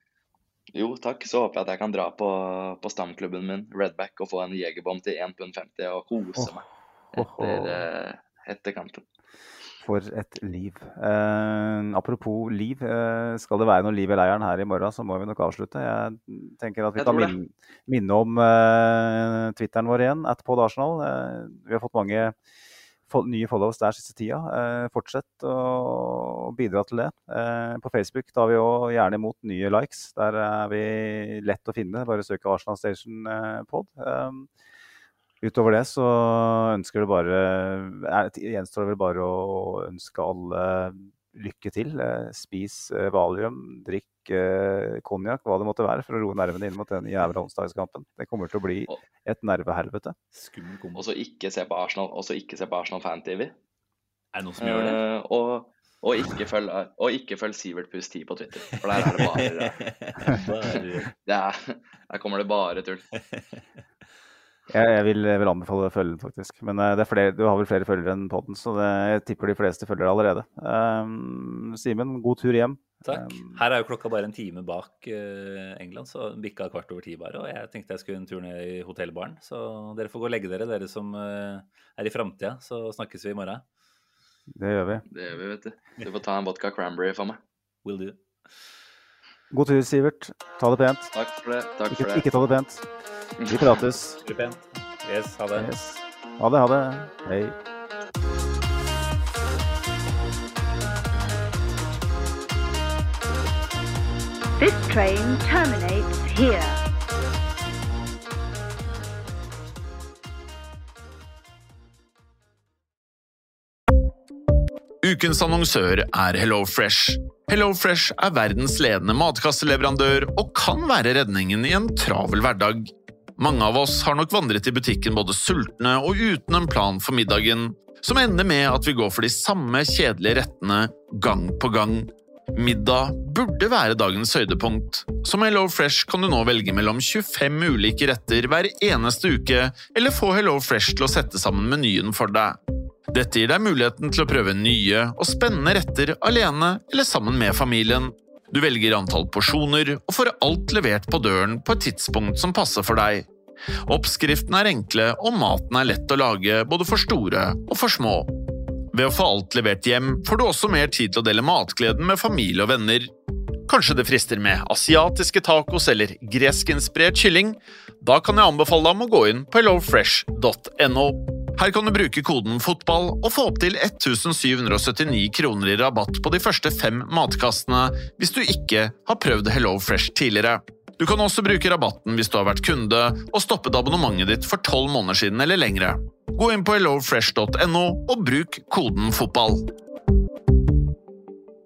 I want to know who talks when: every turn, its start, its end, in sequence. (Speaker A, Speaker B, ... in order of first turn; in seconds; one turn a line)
Speaker A: 0.7-9.0
Speaker B: 7.2-7.8
Speaker B: 9.8-22.3
Speaker A: 17.0-17.4
Speaker B: 23.1-34.5
Speaker B: 35.4-50.1
Speaker C: 50.3-51.1
Speaker A: 51.0-53.5
Speaker C: 54.3-55.0
Speaker A: 54.6-59.8
Speaker C: 58.9-61.1
Speaker A: 60.7-63.1
Speaker C: 63.2-63.6
Speaker B: 64.7-73.6
Speaker C: 73.0-83.6
Speaker B: 84.5-85.0
Speaker A: 85.1-87.4
Speaker C: 87.8-88.2
Speaker B: 89.5-91.1
Speaker A: 91.2-92.3
Speaker B: 91.9-92.9
Speaker A: 93.4-93.8
Speaker B: 93.5-94.2
Speaker C: 94.2-95.7
Speaker B: 95.5-97.5
Speaker D: 104.6-106.7
Speaker E: 115.0-142.6
Speaker E: 143.1-153.3
Speaker E: 153.8-158.4
Speaker E: 158.9-163.1
Speaker E: 163.7-189.7